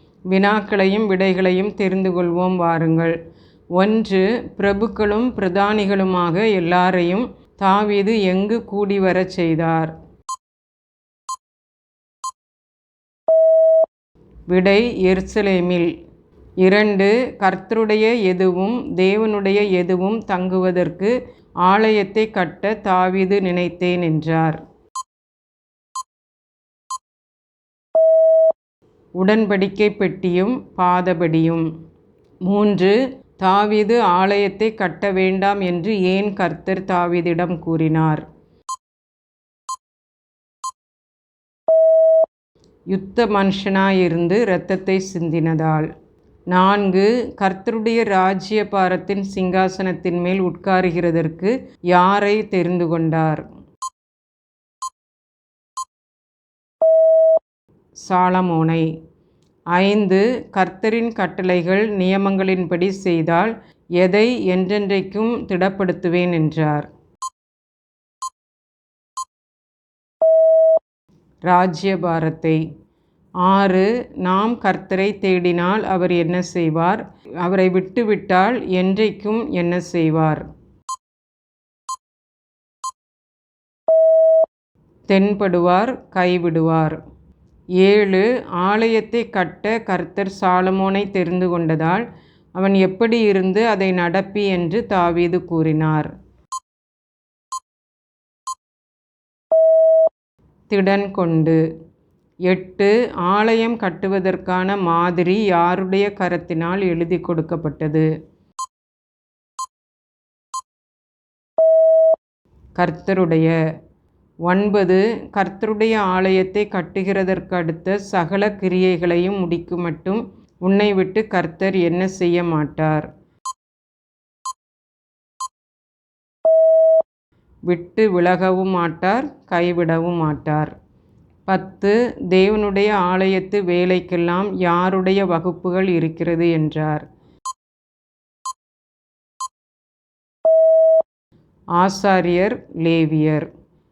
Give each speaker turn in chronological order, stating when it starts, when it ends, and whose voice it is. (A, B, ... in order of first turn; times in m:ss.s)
0:00.3-0:03.2 A
0:03.8-0:09.9 A
0:14.5-0:15.9 A
0:16.6-0:21.1 A
0:21.6-0:24.6 A
0:29.2-0:31.6 A
0:32.4-0:38.2 A
0:42.9-0:45.9 A
0:46.5-0:53.4 A
0:58.0-0:58.9 A
0:59.7-1:06.9 A
1:11.4-1:12.6 A
1:13.4-1:20.4 A
1:25.1-1:27.0 A
1:27.8-1:32.0 A
1:32.6-1:36.1 A
1:40.7-1:41.6 A
1:42.5-1:48.1 A
1:52.8-1:53.6 A
1:54.4-2:03.1 A
2:07.7-2:10.7 A
2:11.4-2:17.0 A
2:21.8-2:23.5 A